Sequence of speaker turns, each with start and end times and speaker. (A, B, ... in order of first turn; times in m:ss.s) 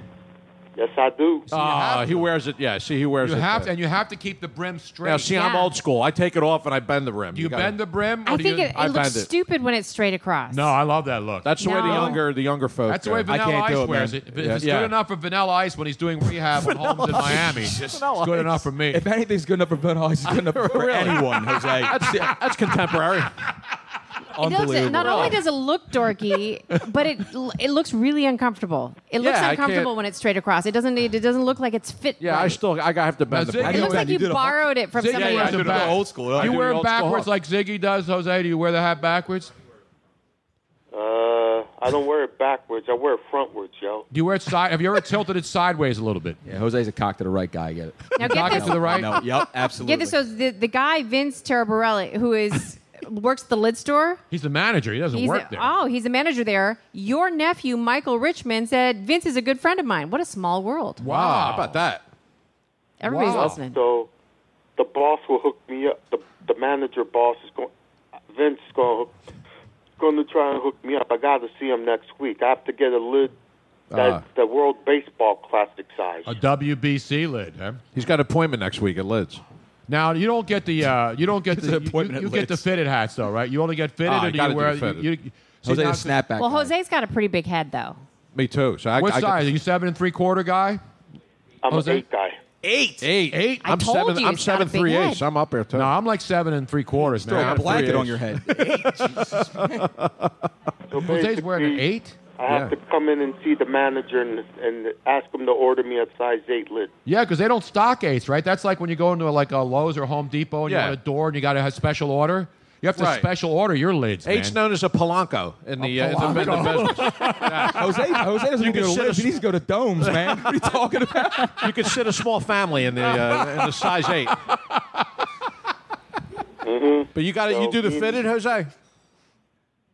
0:00.8-0:01.5 A
0:01.5-0:02.3 B
0:01.5-0:03.7 C
0:03.2-0:05.3 B
0:05.0-0:07.8 C
0:05.3-0:05.7 D
0:07.3-0:08.7 B
0:08.3-0:10.7 D
0:08.8-0:09.3 C
0:10.5-0:12.1 B
0:11.4-0:13.3 C
0:11.6-0:12.2 D
0:11.8-0:12.2 E
0:12.9-0:19.1 B
0:13.3-0:14.7 E
0:14.4-0:15.0 C
0:16.6-0:18.7 C
0:18.9-0:22.4 E
0:20.5-0:23.3 C
0:24.3-0:25.4 E
0:24.4-0:32.6 D
0:25.0-0:25.4 C
0:29.2-0:29.9 C
0:32.2-0:34.1 C
0:33.3-0:34.0 B
0:33.4-0:34.6 E
0:33.6-0:35.9 D
0:34.9-0:39.5 B
0:35.1-0:37.3 C
0:35.2-0:36.6 E
0:40.9-0:44.1 A
0:44.1-0:46.4 B
0:46.4-0:50.2 E
0:48.2-0:49.2 D
0:48.2-0:49.2 B
0:49.8-0:54.2 D
0:54.3-0:55.7 B
0:55.1-1:01.0 D
1:01.0-1:01.8 B
1:01.0-1:02.0 C
1:03.0-1:03.8 D
1:03.0-1:03.6 B
1:03.4-1:04.1 A
1:04.8-1:07.7 A
1:08.3-1:09.1 A
1:10.0-1:13.3 A
1:13.9-1:14.2 C
1:13.9-1:16.3 A
1:16.3-1:17.8 B
1:18.0-1:19.4 C
1:19.9-1:26.2 B
1:21.5-1:22.6 E
1:24.0-1:25.1 C
1:25.6-1:26.7 E
1:26.4-1:28.0 D
1:28.3-1:29.5 C
1:29.0-1:30.8 B
1:31.6-1:32.4 A
1:31.7-1:32.0 B
1:33.0-1:35.9 C
1:33.3-1:33.6 B
1:33.6-1:35.2 D
1:35.7-1:38.1 B
1:37.2-1:39.9 E
1:37.3-1:40.3 C
1:40.9-1:41.8 A
1:41.0-1:42.2 B
1:42.4-1:46.9 A
1:42.5-1:42.7 C
1:47.1-1:54.6 B
1:50.7-1:51.0 C
1:53.0-1:53.3 C
1:54.2-1:59.4 C
1:55.8-1:58.2 B
1:57.7-2:01.8 E
2:00.0-2:00.5 C
2:01.6-2:04.4 C
2:03.1-2:04.0 B
2:04.5-2:05.0 B
2:06.6-2:08.2 A
2:07.2-2:08.7 C